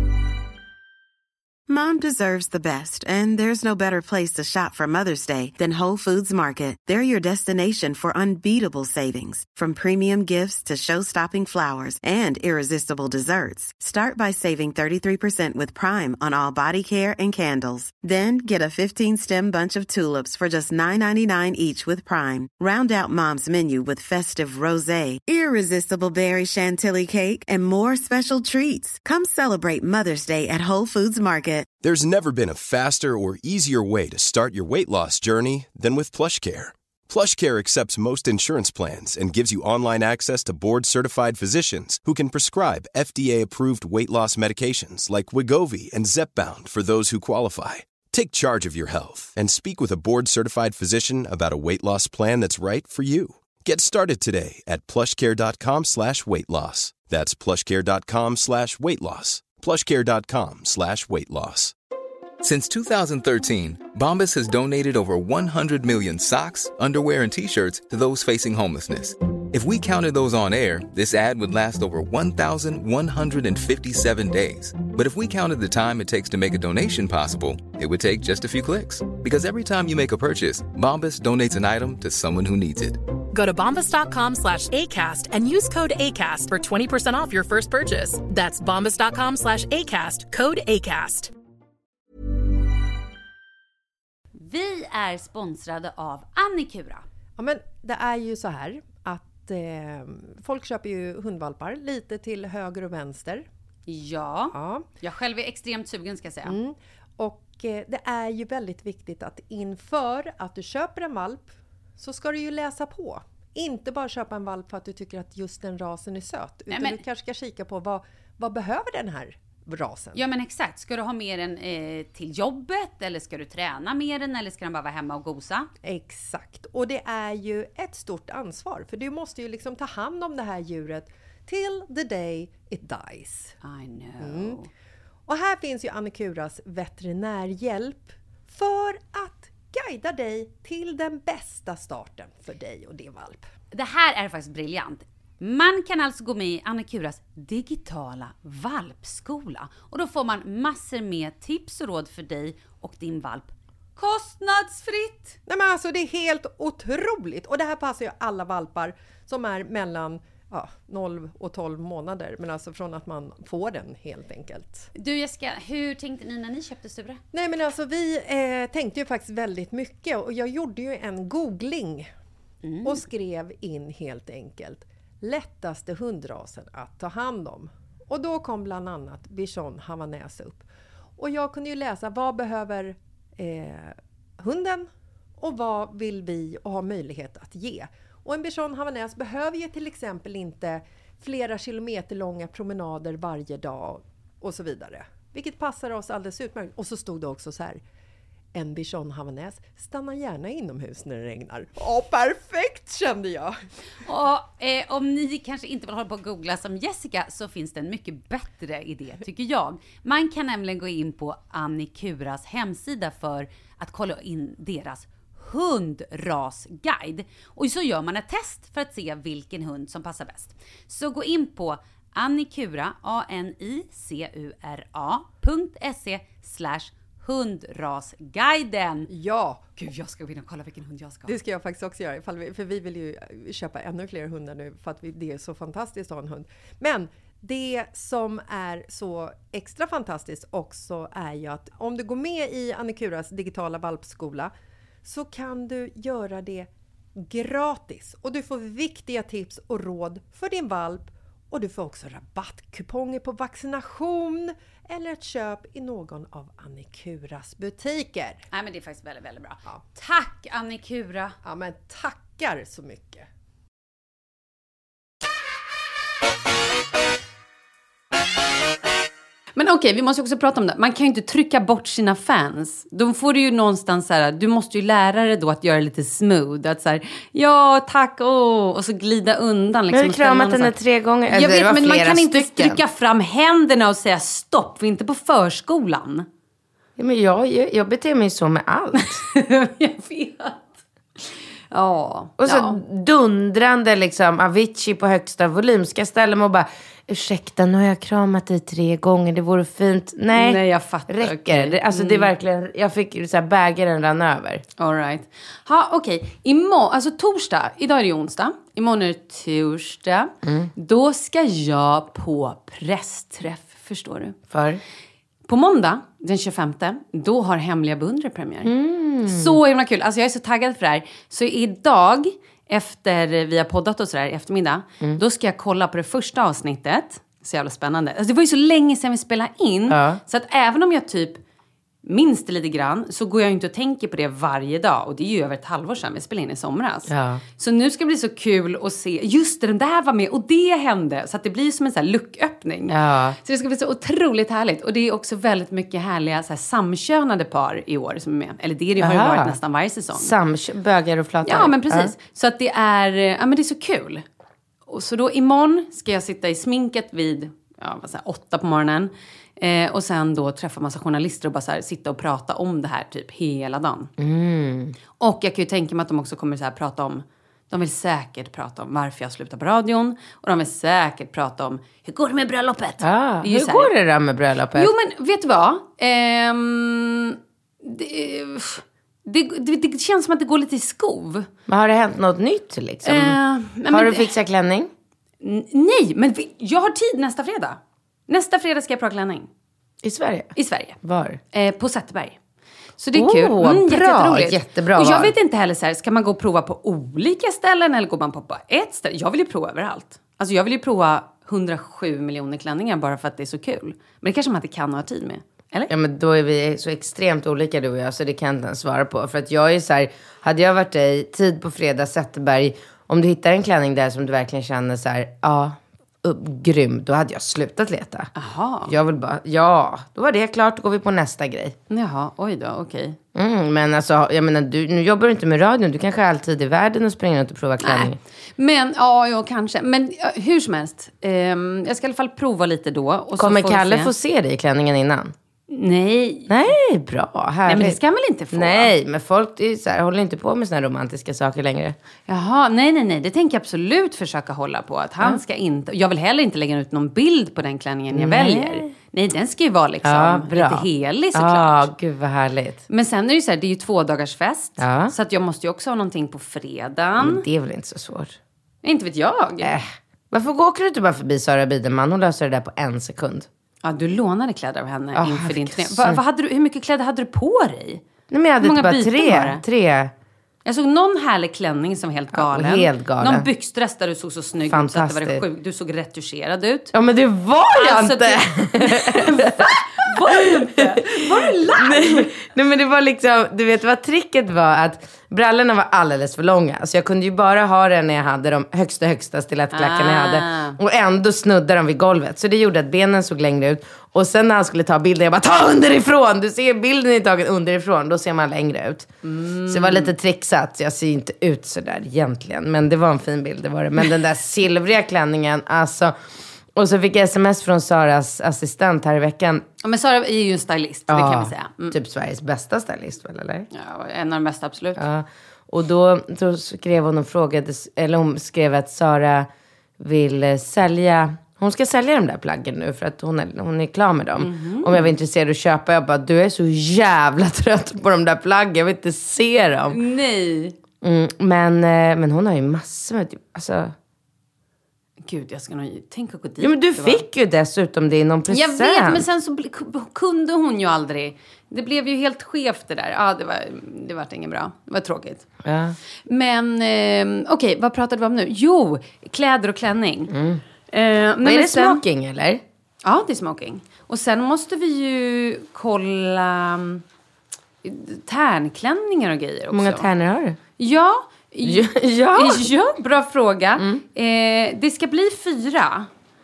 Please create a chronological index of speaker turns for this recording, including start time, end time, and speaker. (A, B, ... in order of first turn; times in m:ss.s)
0:01.7-0:31.7 A
0:31.8-1:01.8 B
1:02.4-1:23.0 C
1:23.3-1:31.3 D
1:34.4-1:37.0 E
1:37.4-1:43.5 F
1:43.9-1:46.5 E
1:44.5-1:44.9 F
1:46.5-2:00.3 F
1:56.7-1:57.0 E
2:00.1-2:05.7 E
2:05.8-2:13.6 F
2:13.6-2:14.7 E
2:14.2-2:14.6 F
2:15.3-2:23.5 F
2:23.7-2:35.4 E
2:35.5-2:44.9 F
2:45.0-2:47.2 E
2:47.3-2:52.1 F
2:52.6-2:53.0 E
2:52.8-3:00.7 F
3:01.2-3:04.9 F
3:05.4-3:17.8 F
3:18.5-3:23.6 F
3:24.0-3:49.1 E
3:49.1-3:49.7 F
3:49.8-3:51.3 E
3:51.3-4:04.5 F
4:05.0-4:18.4 F
4:18.5-4:21.4 E
4:21.4-4:23.2 F
4:29.6-4:40.7 E
4:39.9-4:42.8 G
4:41.3-4:46.3 E
4:47.0-4:49.2 G
4:49.0-4:52.8 E
4:52.4-5:04.6 G
5:00.3-5:02.3 E
5:04.8-5:14.4 E
5:10.4-5:10.7 G
5:14.5-5:14.8 G
5:15.5-5:18.7 E
5:18.6-5:19.6 G
5:19.3-5:31.4 E
5:29.9-5:30.2 G
5:32.0-5:50.3 E
5:37.1-5:37.4 G
5:42.9-5:43.4 G
5:49.0-5:49.6 G
5:50.2-5:52.1 G
5:51.4-5:54.2 E
5:54.9-6:04.1 E
6:04.2-6:05.0 G
6:05.2-6:13.9 E
6:13.0-6:14.9 G
6:14.8-6:21.5 E
6:21.7-6:23.4 G
6:23.0-6:24.3 E
6:23.9-6:24.9 G
6:25.4-6:29.5 E
6:30.0-6:31.4 G
6:30.6-6:31.0 E
6:31.5-6:32.4 E
6:33.0-6:45.9 E
6:33.1-6:35.3 G
6:45.9-6:58.3 G
6:58.4-6:58.9 E
6:58.9-7:01.8 G
7:01.9-7:03.2 E
7:03.4-7:08.2 G
7:07.8-7:14.1 E
7:13.4-7:15.3 G
7:15.7-7:16.5 E
7:16.5-7:18.0 G
7:17.7-7:18.9 E
7:18.5-7:22.0 G
7:22.3-7:31.9 E
7:28.1-7:28.9 G
7:30.0-7:32.8 G
7:32.9-7:37.4 E
7:34.8-7:35.1 G
7:37.2-7:38.4 G
7:38.8-7:39.7 E
7:39.6-7:43.5 G
7:43.8-7:48.0 E
7:45.2-7:46.2 G
7:48.3-7:50.1 G
7:48.6-7:49.6 E
7:50.6-7:56.9 E
7:52.3-7:53.5 G
7:54.7-7:55.4 G
7:56.9-8:19.1 G
7:57.8-8:02.3 E
8:09.7-8:10.8 E
8:19.2-8:20.1 E
8:19.7-8:26.2 G
8:26.7-8:29.6 G
8:29.8-8:32.0 E
8:31.1-8:33.7 G
8:33.7-8:35.0 E
8:35.0-8:50.0 G
8:44.4-8:45.1 E
8:49.9-8:50.8 E
8:51.0-8:54.0 G
8:55.2-8:57.2 E
8:56.6-8:59.2 G
8:58.5-9:05.5 E
9:05.6-9:06.0 G
9:06.3-9:10.3 E
9:10.3-9:10.6 G
9:10.9-9:12.0 E
9:11.4-9:12.6 G
9:13.0-9:17.0 E
9:17.8-9:20.1 E
9:19.7-9:20.6 G
9:20.8-9:26.1 E
9:21.6-9:22.7 G
9:23.8-9:24.0 G